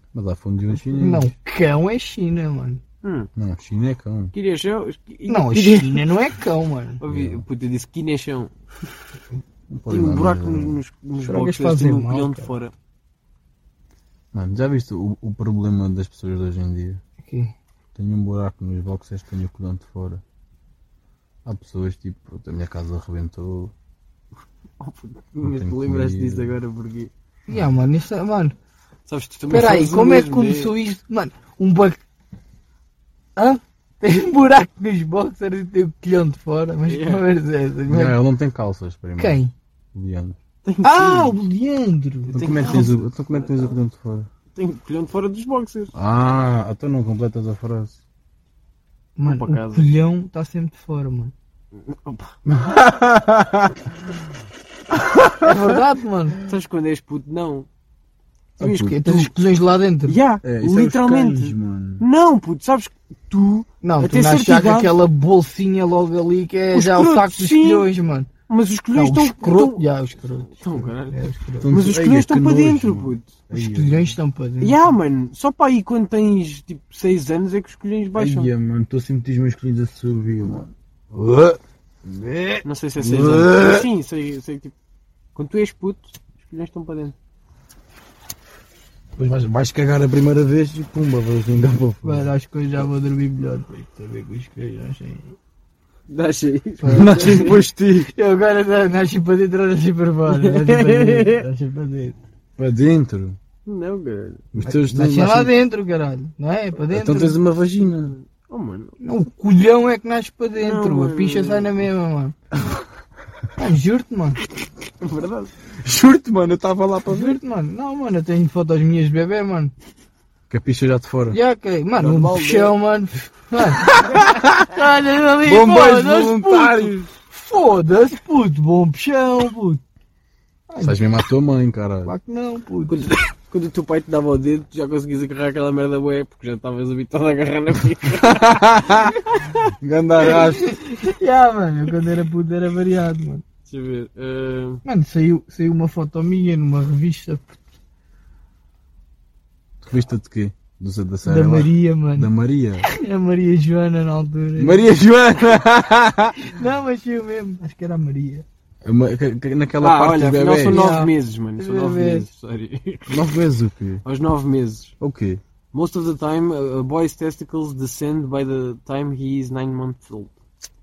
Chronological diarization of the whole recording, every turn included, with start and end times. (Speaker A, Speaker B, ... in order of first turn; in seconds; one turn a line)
Speaker A: 0.1-1.3
Speaker B: 0.9-2.8
Speaker C: 3.0-3.3
Speaker A: 3.4-4.3
Speaker C: 4.3-6.2
Speaker B: 5.3-7.0
Speaker C: 7.0-8.5
Speaker A: 7.0-7.4
Speaker A: 9.7-10.8
Speaker C: 9.9-12.7
Speaker B: 11.2-12.5
Speaker A: 14.3-17.0
Speaker B: 17.2-17.5
Speaker A: 17.9-20.2
Speaker A: 21.4-23.7
Speaker C: 24.8-27.1
Speaker A: 25.4-26.6
Speaker B: 27.5-28.5
Speaker C: 29.1-30.7
Speaker B: 29.5-32.0
Speaker B: 33.4-38.2
Speaker C: 36.9-37.2
Speaker A: 37.9-39.4
Speaker B: 39.2-39.5
Speaker A: 39.9-40.4
Speaker C: 40.6-41.4
Speaker B: 40.8-42.9
Speaker C: 42.2-43.7
Speaker A: 42.3-44.3
Speaker C: 44.5-45.9
Speaker A: 45.9-48.0
Speaker B: 49.2-51.3
Speaker C: 49.2-49.9
Speaker C: 51.8-52.3
Speaker A: 52.5-53.9
Speaker A: 54.9-55.6
Speaker B: 55.4-56.4
Speaker C: 56.5-57.7
Speaker A: 58.6-59.0
Speaker B: 58.6-60.2
Speaker C: 58.8-59.3
Speaker C: 60.0-64.9
Speaker A: 60.4-62.0
Speaker B: 63.8-68.3
Speaker C: 66.7-67.9
Speaker C: 68.5-69.8
Speaker B: 68.9-71.8
Speaker C: 70.6-73.4
Speaker A: 71.6-74.1
Speaker B: 73.5-74.9
Speaker C: 74.6-78.5
Speaker A: 78.1-83.9
Speaker C: 82.6-84.7
Speaker C: 85.3-87.1
Speaker A: 89.2-92.3
Speaker B: 92.0-95.3
Speaker C: 96.1-97.5
Speaker B: 96.8-97.5
Speaker A: 96.9-98.1
Speaker B: 98.1-102.2
Speaker C: 100.3-101.4
Speaker A: 102.6-103.4
Speaker C: 103.7-104.4
Speaker A: 104.5-105.5
Speaker B: 104.6-107.4
Speaker A: 106.9-108.2
Speaker C: 108.1-109.0
Speaker B: 109.0-112.3
Speaker C: 110.6-111.8
Speaker B: 113.6-114.4
Speaker C: 115.0-115.5
Speaker A: 115.8-117.4
Speaker B: 117.1-119.7
Speaker A: 120.5-121.4
Speaker B: 121.3-124.0
Speaker C: 122.0-122.8
Speaker A: 123.9-124.7
Speaker B: 124.6-129.8
Speaker A: 125.4-127.0
Speaker B: 130.7-131.0
Speaker A: 130.8-132.1
Speaker B: 132.0-132.9
Speaker C: 132.9-138.6
Speaker A: 138.1-139.2
Speaker A: 139.8-140.8
Speaker B: 140.2-143.4
Speaker C: 143.7-144.8
Speaker B: 144.8-147.6
Speaker A: 149.8-152.8
Speaker B: 151.2-152.3
Speaker B: 152.8-154.8
Speaker A: 154.6-156.4
Speaker B: 156.4-158.4
Speaker A: 158.8-160.8
Speaker C: 159.8-163.2
Speaker B: 160.7-162.3
Speaker A: 163.1-164.0
Speaker C: 164.0-164.9
Speaker A: 165.0-165.4
Speaker C: 165.7-170.3